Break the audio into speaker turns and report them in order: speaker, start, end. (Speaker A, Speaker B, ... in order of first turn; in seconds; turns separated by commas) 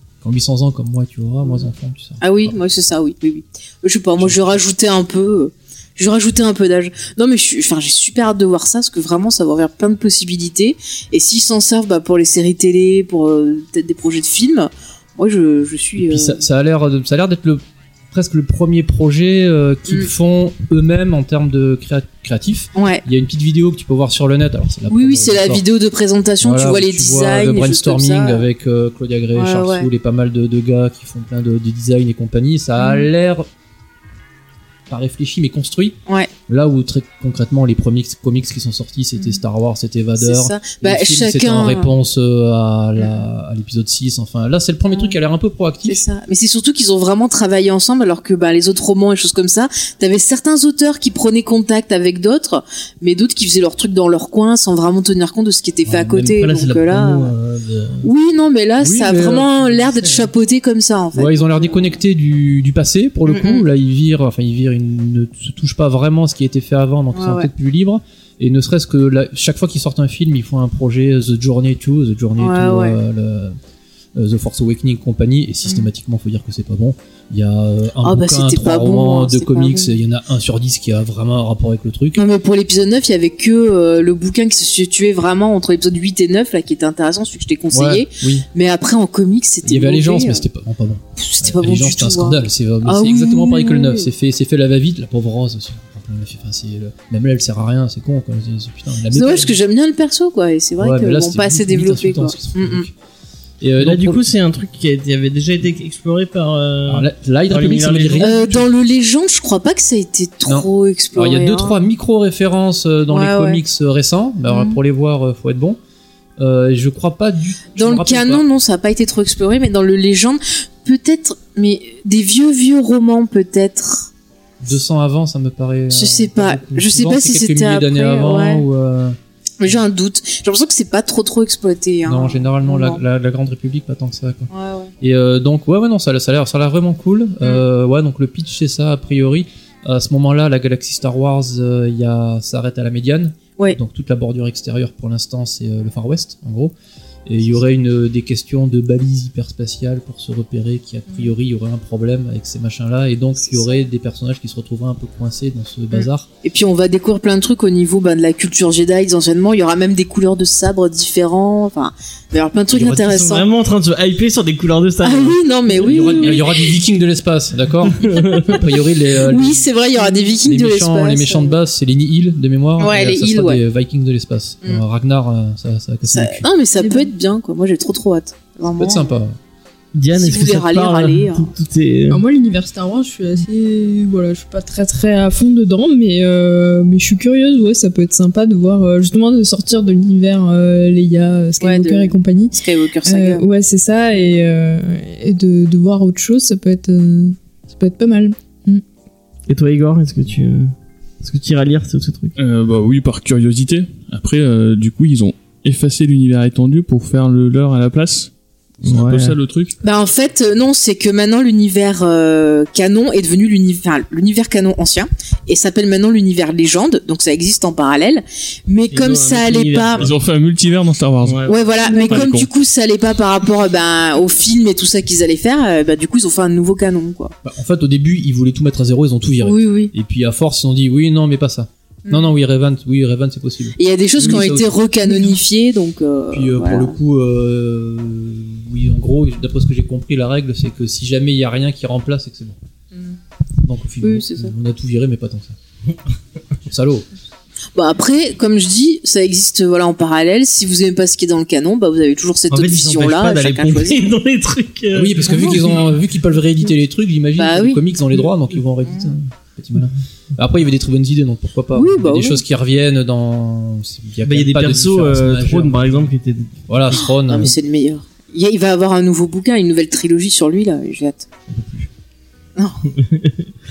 Speaker A: 0.2-2.6, Speaker B: 2.2-16.4, Speaker A: 4.2-4.5, Speaker A: 16.0-25.6, Speaker B: 22.7-23.0, Speaker B: 24.9-28.5, Speaker A: 26.4-33.5, Speaker B: 29.3-29.9, Speaker B: 32.8-33.1, Speaker A: 34.9-36.0, Speaker A: 36.5-46.0, Speaker B: 40.2-41.9, Speaker B: 44.9-45.1, Speaker B: 45.8-57.3, Speaker A: 55.8-56.4, Speaker C: 56.4-58.1, Speaker B: 58.0-62.0, Speaker A: 58.8-60.3, Speaker A: 61.1-73.6, Speaker B: 63.3-63.6, Speaker B: 67.1-67.5, Speaker B: 72.4-73.0, Speaker A: 74.1-82.2, Speaker B: 78.0-80.0, Speaker B: 82.2-90.4, Speaker A: 87.7-88.5, Speaker A: 89.6-99.6, Speaker B: 91.2-94.1, Speaker B: 99.1-102.9, Speaker A: 100.8-102.9, Speaker A: 103.6-104.2, Speaker C: 103.8-108.4, Speaker A: 106.9-108.7, Speaker B: 108.2-111.8, Speaker A: 110.5-115.8, Speaker B: 113.1-113.6, Speaker B: 114.5-114.8, Speaker A: 116.4-118.4, Speaker B: 117.8-124.1, Speaker A: 124.6-129.2, Speaker B: 125.9-128.6, Speaker B: 129.6-133.0, Speaker A: 132.0-134.5, Speaker B: 134.5-134.9, Speaker A: 135.0-146.7, Speaker A: 147.2-156.3, Speaker B: 153.4-153.8, Speaker B: 155.9-163.5, Speaker A: 162.7-163.2, Speaker C: 163.0-165.4, Speaker B: 165.0-166.7, Speaker A: 165.7-176.5, Speaker C: 168.0-168.6, Speaker B: 169.3-171.6, Speaker B: 172.8-173.6, Speaker B: 176.1-179.1, Speaker D: 176.8-177.1, Speaker A: 178.8-179.4, Speaker C: 179.9-182.2, Speaker B: 180.1-181.5, Speaker D: 182.1-198.8, Speaker B: 191.6-193.4, Speaker C: 199.5-202.4, Speaker E: 202.4-208.3, Speaker E: 208.8-209.8, Speaker C: 208.8-209.4, Speaker B: 209.8-220.1, Speaker C: 218.9-220.1, Speaker E: 220.0-221.4, Speaker C: 221.2-221.5, Speaker B: 221.5-227.3, Speaker D: 221.8-222.2, Speaker E: 222.0-222.5, Speaker A: 227.4-234.8, Speaker B: 229.4-229.9, Speaker B: 232.1-232.3, Speaker B: 233.8-236.9, Speaker A: 236.3-242.6, Speaker A: 243.6-245.6, Speaker B: 244.0-244.5, Speaker A: 246.7-247.1, Speaker B: 247.7-254.1, Speaker C: 252.5-255.7, Speaker A: 254.9-266.1, Speaker B: 255.3-255.6, Speaker B: 257.4-257.8, Speaker B: 261.7-262.4, Speaker C: 264.2-266.6, Speaker A: 266.7-267.5, Speaker B: 267.0-271.3, Speaker C: 271.5-271.9, Speaker C: 272.9-273.4